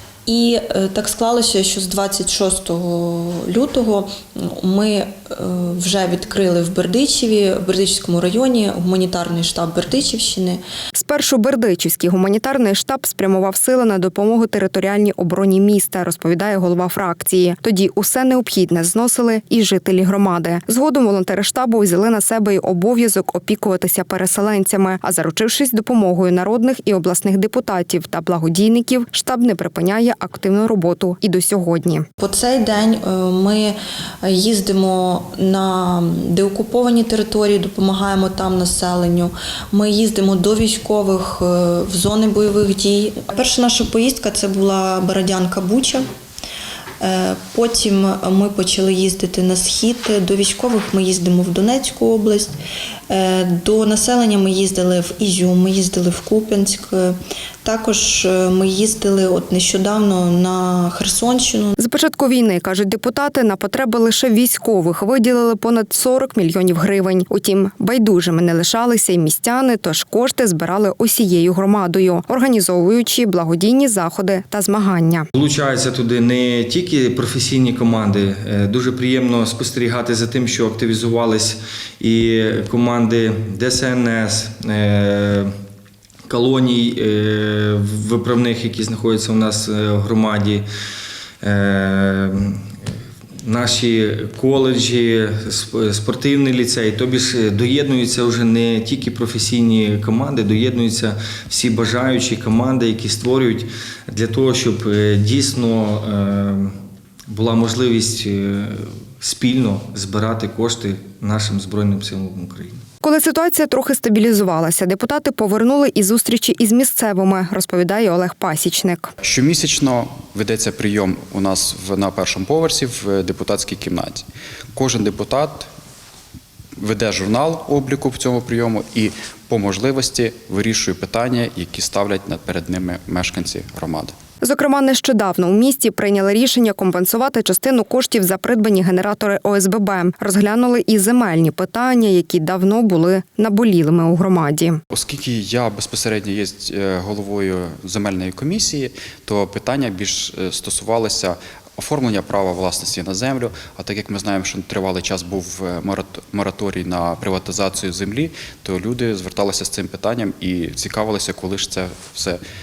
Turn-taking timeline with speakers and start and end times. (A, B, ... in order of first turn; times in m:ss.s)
0:00.3-0:10.6 A
0:10.9-0:32.1 B
0:32.2-0:46.0 A
0:47.0-0:52.6 A
0:53.1-1:01.8 A
1:01.8-1:15.3 B
1:15.4-1:25.5 C
1:26.3-1:30.7 C
1:31.4-1:32.7 C
1:33.4-1:46.7 C
1:47.3-1:52.8 C
1:53.0-1:59.1 B
1:59.2-2:05.7 D
2:06.8-2:14.2 D
2:14.4-2:24.8 B
2:24.9-2:42.4 D